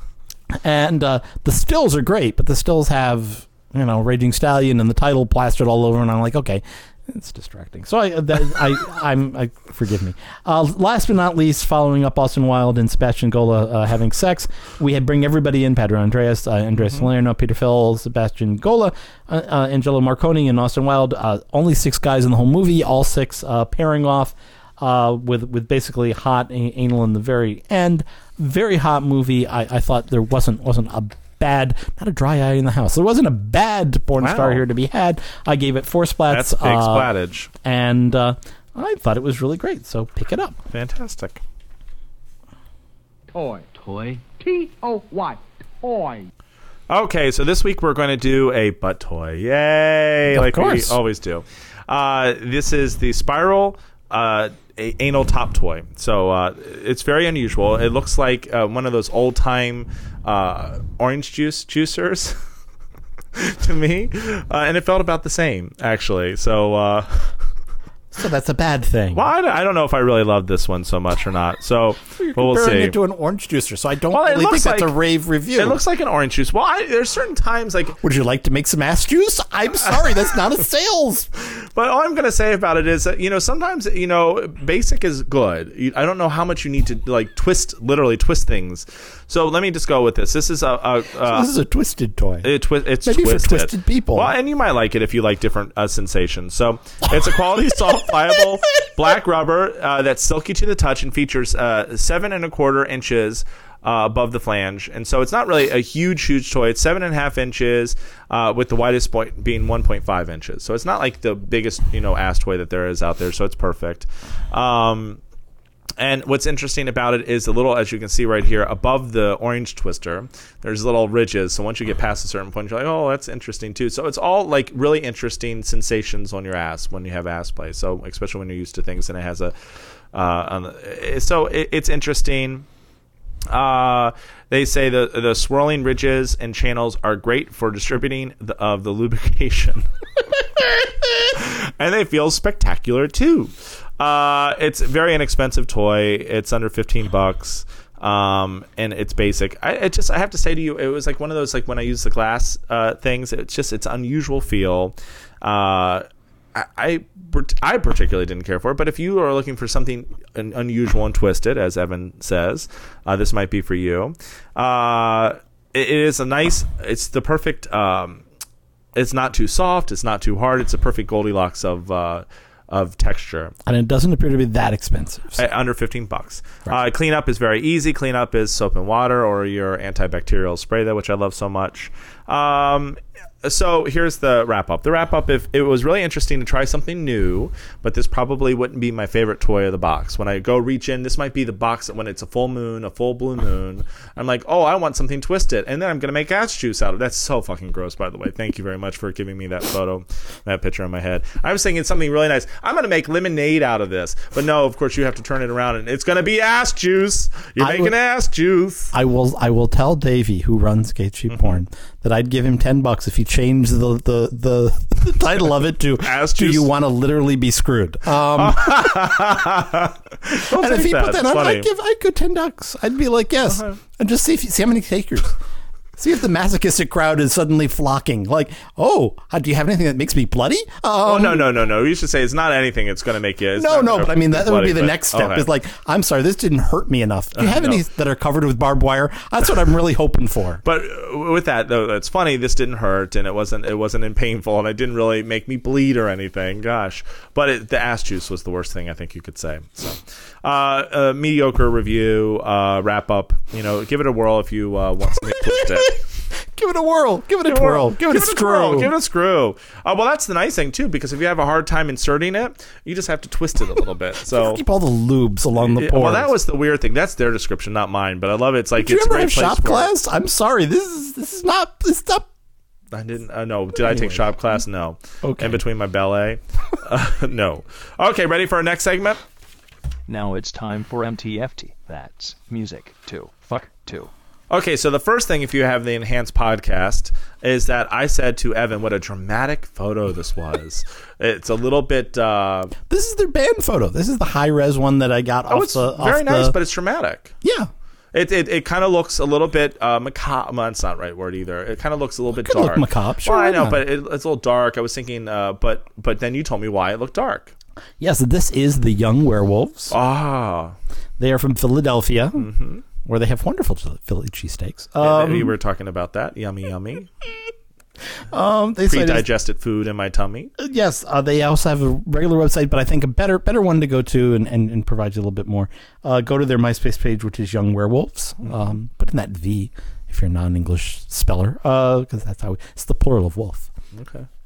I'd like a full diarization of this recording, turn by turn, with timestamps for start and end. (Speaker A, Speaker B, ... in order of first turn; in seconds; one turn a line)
Speaker A: 0.5-37.1
Speaker B: 34.2-34.6
Speaker B: 36.3-37.5
Speaker A: 37.6-40.6
Speaker B: 40.7-41.4
Speaker C: 43.3-46.3
Speaker B: 46.9-62.4
Speaker A: 50.3-51.0
Speaker B: 63.3-67.3
Speaker A: 68.1-69.3
Speaker B: 69.1-73.0
Speaker A: 72.2-75.8
Speaker B: 74.1-74.9
Speaker B: 75.5-78.0
Speaker A: 78.0-81.3
Speaker B: 81.4-91.5
Speaker A: 91.2-92.5
Speaker B: 92.4-115.2
Speaker A: 93.0-94.3
Speaker B: 116.0-129.5
Speaker B: 130.1-132.7
Speaker B: 133.5-139.8
Speaker B: 141.3-168.2
Speaker B: 168.9-173.5
Speaker A: 173.7-175.4
Speaker B: 175.3-208.9
Speaker A: 207.6-207.9
Speaker A: 208.9-219.1
Speaker B: 211.3-211.6
Speaker B: 216.0-216.7
Speaker B: 218.3-221.7
Speaker A: 220.3-225.3
Speaker B: 223.5-223.8
Speaker A: 226.0-231.5
Speaker B: 231.0-235.5
Speaker A: 233.5-240.6
Speaker B: 237.4-237.8
Speaker B: 240.6-255.9
Speaker A: 255.2-258.9
Speaker B: 257.4-264.6
Speaker A: 264.2-266.3
Speaker B: 265.6-269.9
Speaker A: 268.8-272.3
Speaker B: 272.9-279.2
Speaker A: 273.8-274.3
Speaker A: 275.2-275.6
Speaker D: 280.1-284.1
Speaker B: 284.5-292.7
Speaker A: 292.9-296.5
Speaker B: 295.5-297.3
Speaker A: 297.4-297.7
Speaker B: 298.1-307.5
Speaker A: 302.4-303.8
Speaker A: 308.0-309.9
Speaker B: 309.9-310.8
Speaker A: 311.2-312.5
Speaker B: 312.4-312.8
Speaker A: 313.0-315.5
Speaker B: 315.0-317.1
Speaker A: 318.3-319.3
Speaker B: 318.9-320.5
Speaker A: 320.6-333.7
Speaker B: 328.4-328.7
Speaker B: 333.9-334.3